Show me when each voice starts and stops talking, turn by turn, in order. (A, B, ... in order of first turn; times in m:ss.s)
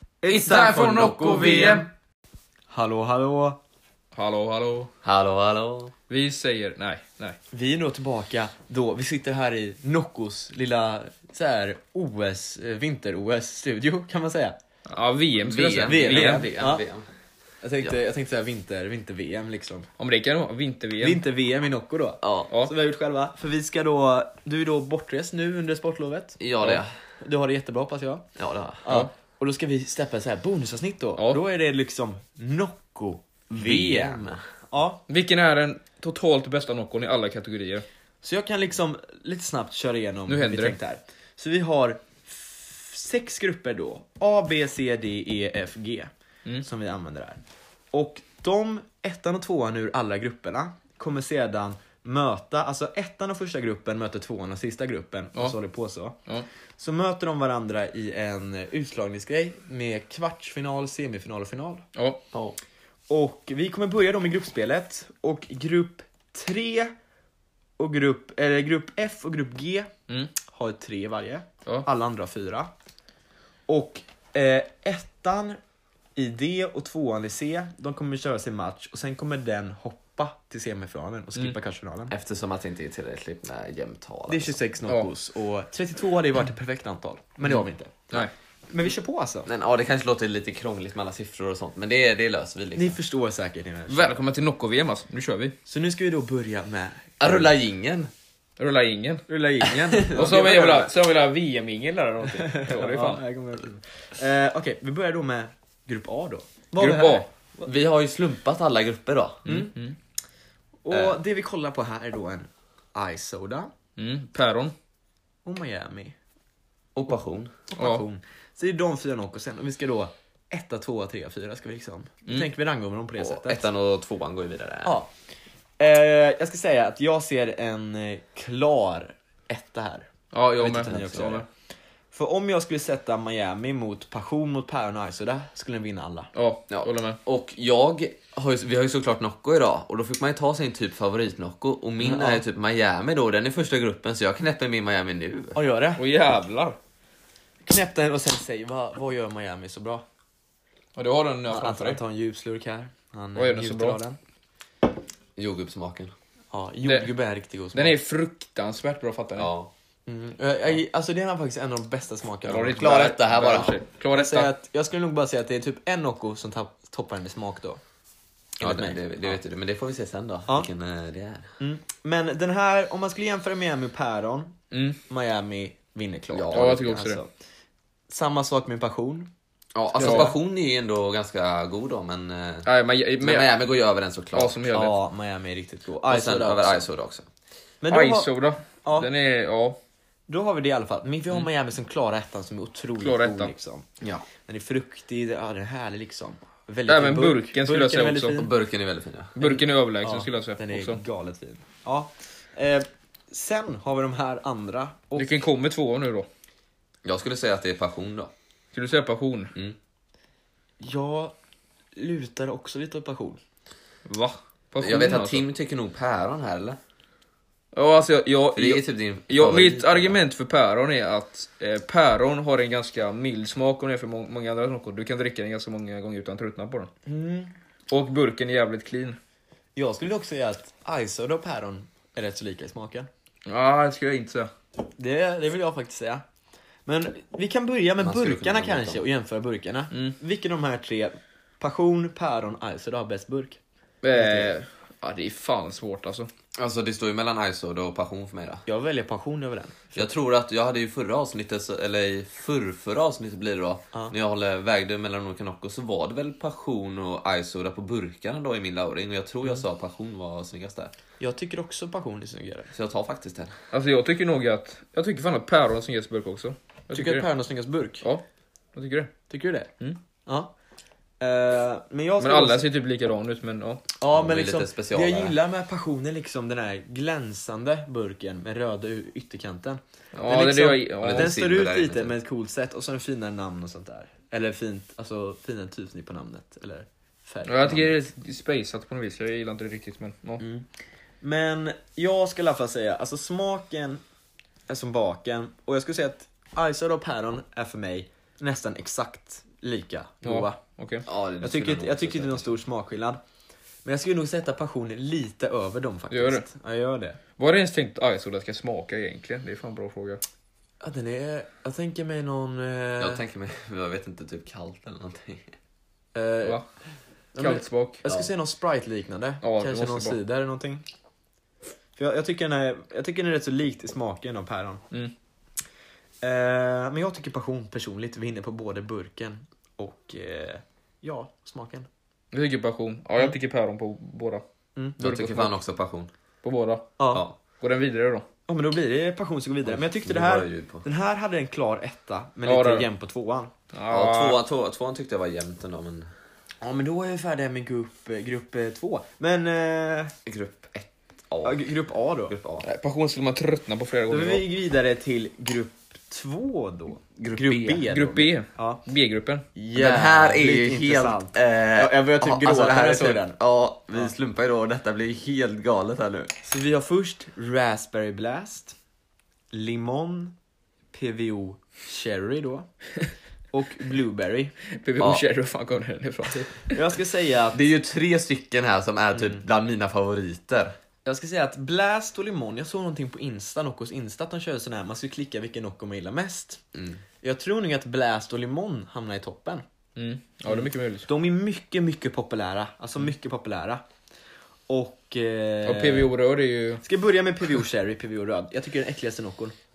0:00.2-0:01.7 A
0:00.3-0:01.9 B
0:00.3-0:01.8 C
0:02.7-0:03.6 A
0:04.1-0:04.9 C
0:05.0-0:05.9 B
0:06.1-0:07.4 C
0:07.5-0:14.6 A
0:14.9-0:16.5 C
0:15.4-0:17.0 B
0:15.8-0:16.8 A
0:17.6-0:19.9 A
0:20.0-0:21.2 C
0:21.0-0:28.3 A
0:22.2-0:22.5 B
0:26.4-0:26.9 B
0:28.4-0:28.8 B
0:28.8-0:35.0 A
0:33.6-0:34.4 B
0:35.1-0:37.8 C
0:38.2-0:47.4 A
0:40.3-0:40.7 C
0:47.9-0:56.2 A
0:56.8-1:01.8 A
1:02.0-1:02.2 C
1:02.3-1:02.6 B
1:03.1-1:06.9 A
1:07.8-1:09.9 A
1:10.5-1:12.7 A
1:13.7-1:15.6 A
1:16.2-1:22.1 A
1:22.1-1:24.6 B
1:24.3-1:28.0 A
1:28.7-1:29.5 A
1:29.4-1:33.0 B
1:32.7-1:34.2 A
1:33.9-1:35.6 C
1:35.7-1:37.5 A
1:37.2-1:38.1 B
1:38.6-1:39.2 C
1:39.3-1:40.9 A
1:39.9-1:40.4 B
1:40.0-1:43.2 C
1:42.5-1:47.7 A
1:46.8-1:47.3 C
1:47.6-1:49.5 B
1:49.4-1:49.9 C
1:49.4-1:49.7 A
1:50.8-1:53.7 A
1:50.9-1:51.2 B
1:54.0-1:54.7 C
1:55.4-1:56.2 A
1:56.9-1:57.5 B
1:57.7-2:03.6 A
1:57.8-1:58.0 C
2:03.2-2:05.0 B
2:04.8-2:05.1 A
2:05.8-2:11.4 A
2:10.3-2:11.4 C
2:12.1-2:16.3 A
2:16.3-2:17.2 C
2:16.7-2:25.6 B
2:22.0-2:22.4 A
2:25.5-2:26.0 A
2:26.0-2:26.8 C
2:27.6-2:30.0 A
2:30.9-2:32.0 C
2:31.5-2:34.2 A
2:33.3-2:34.0 C
2:35.4-2:36.1 B
2:36.5-2:38.0 A
2:36.8-2:37.1 C
2:37.7-2:39.5 C
2:39.4-2:39.7 B
2:40.1-2:43.2 A
2:42.4-2:44.5 C
2:42.8-2:43.8 B
2:44.1-2:47.8 A
2:48.6-2:49.0 A
2:48.6-2:51.5 B
2:51.6-2:57.3 A
2:54.7-2:55.0 C
2:56.3-2:56.8 B
2:56.5-2:57.2 C
2:58.1-2:59.3 A
2:59.7-3:02.7 B
2:59.9-3:00.3 A
3:00.0-3:00.3 C
3:02.6-3:03.5 C
3:03.2-3:04.6 B
3:04.3-3:05.0 C
3:04.7-3:06.8 A
3:06.1-3:07.2 B
3:07.8-3:08.3 A
3:07.9-3:09.8 C
3:08.8-3:09.1 A
3:10.3-3:13.8 A
3:13.0-3:13.5 C
3:14.4-3:18.5 A
3:16.9-3:18.4 C
3:18.3-3:19.4 B
3:19.4-3:21.0 C
3:19.4-3:25.3 A
3:25.2-3:26.3 C
3:27.0-3:28.3 B
3:28.7-3:29.5 C
3:30.8-3:31.3 A
3:31.9-3:33.4 A
3:34.0-3:35.4 C
3:34.8-3:36.8 B
3:37.7-3:46.9 C
3:38.5-3:40.2 B
3:47.0-3:47.5 A
3:47.9-3:49.2 C
3:49.8-3:53.1 A
3:53.4-3:54.5 C
3:55.0-3:56.2 A
3:56.8-4:03.6 A
3:58.0-3:59.0 B
4:04.0-4:06.3 C
4:04.1-4:04.5 A
4:06.6-4:08.6 B
4:08.7-4:10.0 A
4:09.9-4:20.9 B
4:21.2-4:22.7 A
4:22.7-4:23.6 B
4:23.7-4:27.3 C
4:26.9-4:28.0 A
4:28.7-4:29.1 C
4:29.3-4:29.7 A
4:30.2-4:30.5 A
4:31.2-4:32.6 A
4:32.2-4:33.8 C
4:34.0-4:48.0 A
4:34.1-4:35.4 B
4:40.2-4:41.4 C
4:41.0-4:42.1 B
4:47.4-4:50.4 C
4:50.4-4:50.7 A
4:51.2-4:54.0 A
4:54.7-5:00.6 A
5:00.2-5:01.0 C
5:01.0-5:02.5 B
5:01.4-5:03.2 A
5:03.8-5:07.2 A
5:06.1-5:06.4 C
5:07.4-5:10.2 C
5:10.8-5:13.2 A
5:13.0-5:15.5 B
5:16.1-5:16.6 A
5:17.3-5:20.8 A
5:17.4-5:18.0 C
5:19.4-5:20.2 C
5:22.0-5:24.8 A
5:26.2-5:31.9 A
5:32.3-5:34.4 C
5:35.0-5:35.5 C
5:35.0-5:36.1 B
5:36.4-5:37.0 C
5:37.0-5:37.2 A
5:37.6-5:38.2 C
5:38.5-5:43.5 A
5:39.6-5:40.8 B
5:42.4-5:42.9 C
5:43.7-5:44.4 C
5:43.9-5:46.1 B
5:46.6-5:50.1 A
5:50.2-5:51.7 B
5:51.4-5:52.3 A
5:52.3-5:52.6 B
5:52.6-5:54.4 C
5:54.1-5:58.8 A
5:57.2-5:57.8 B
5:57.8-5:59.4 C
5:59.5-6:03.4 A
5:59.8-6:06.3 B
6:06.4-6:08.7 A
6:09.5-6:10.3 A
6:10.9-6:12.7 A
6:13.5-6:14.6 A
6:14.7-6:16.8 C
6:16.3-6:17.6 A
6:17.5-6:20.7 B
6:21.0-6:26.6 A
6:26.7-6:27.0 B
6:27.2-6:29.6 A
6:30.0-6:31.1 C
6:30.5-6:33.8 A
6:34.7-6:36.1 A
6:35.6-6:36.8 C
6:36.8-6:39.5 A